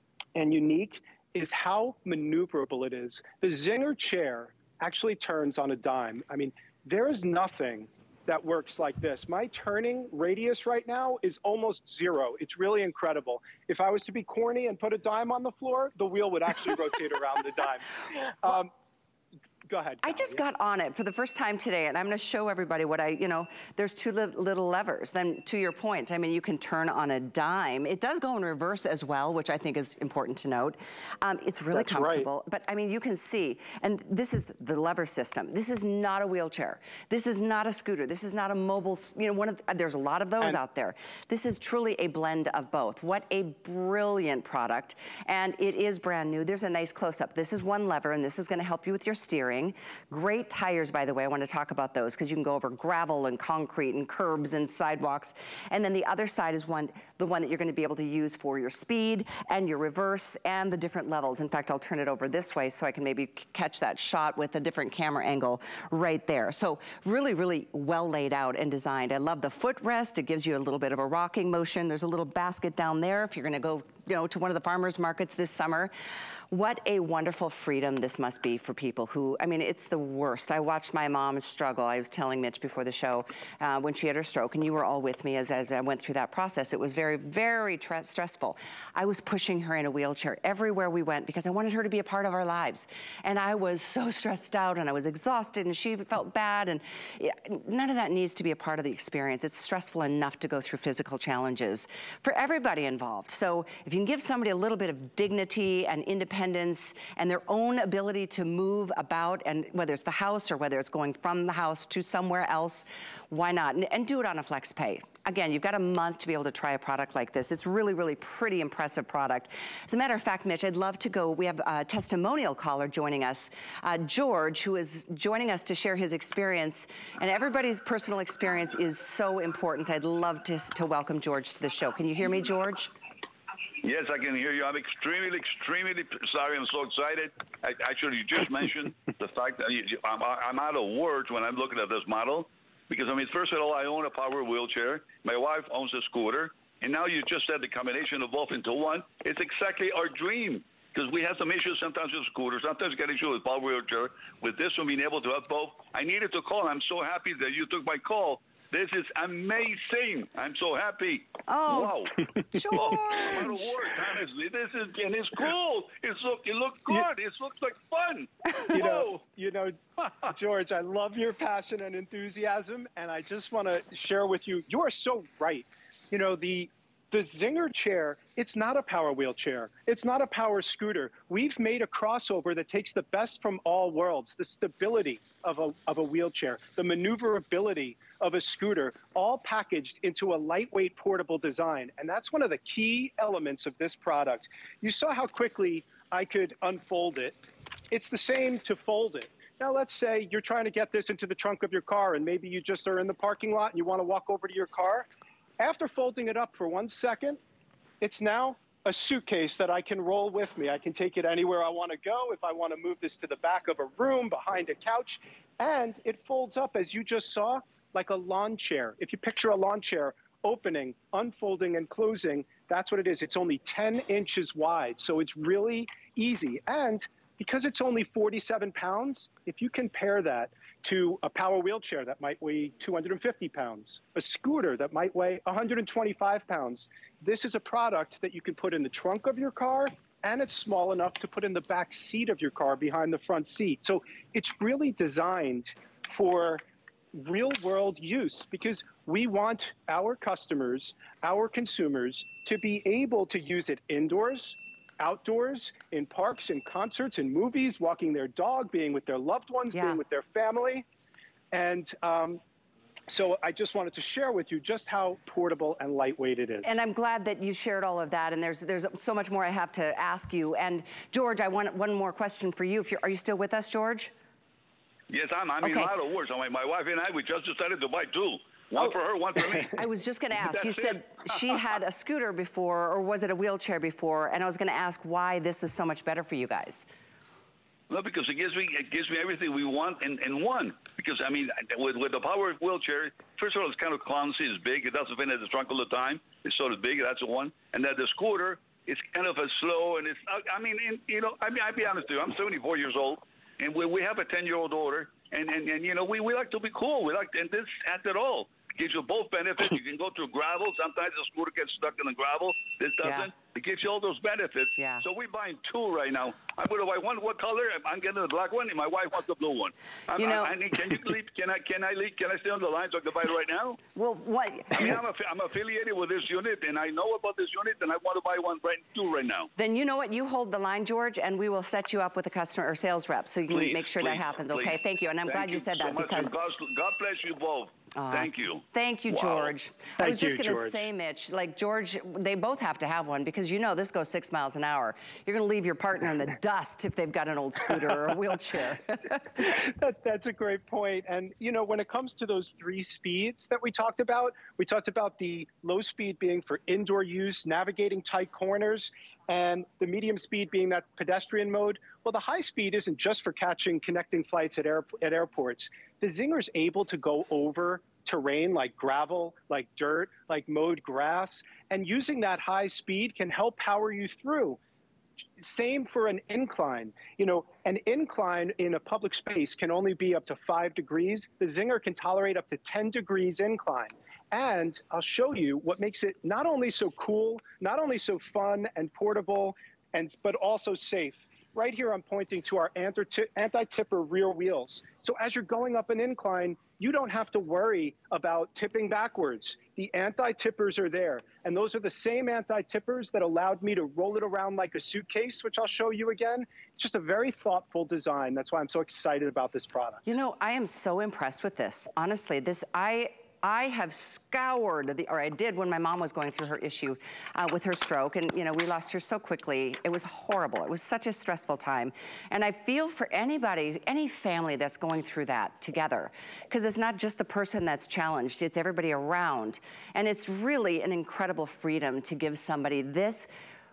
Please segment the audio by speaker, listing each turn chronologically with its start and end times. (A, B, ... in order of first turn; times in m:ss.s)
0:00.3-0:18.7 A
0:19.7-0:20.4 A
0:20.0-1:15.9 B
0:31.7-0:32.3 A
1:16.5-2:12.9 B
2:13.8-2:42.2 C
2:41.5-2:43.6 B
2:42.7-2:49.1 C
2:48.7-3:17.4 A
3:17.9-3:25.1 A
3:25.6-3:27.4 A
3:28.0-4:06.6 A
4:07.1-4:20.8 A
4:19.7-4:20.0 B
4:21.5-4:22.4 A
4:23.1-4:26.8 A
4:26.6-4:34.1 B
4:35.1-4:39.8 C
4:35.6-4:35.9 B
4:39.6-4:46.9 B
4:40.4-4:41.6 C
4:47.9-5:23.8 C
5:13.0-5:13.3 B
5:14.8-5:15.0 B
5:20.2-5:20.9 B
5:23.9-5:25.0 B
5:24.7-5:29.5 C
5:29.6-5:36.4 B
5:33.5-5:39.5 C
5:37.9-5:49.4 B
5:40.0-5:40.8 A
5:49.4-6:14.6 A
6:15.4-6:50.0 A
6:50.0-7:13.3 B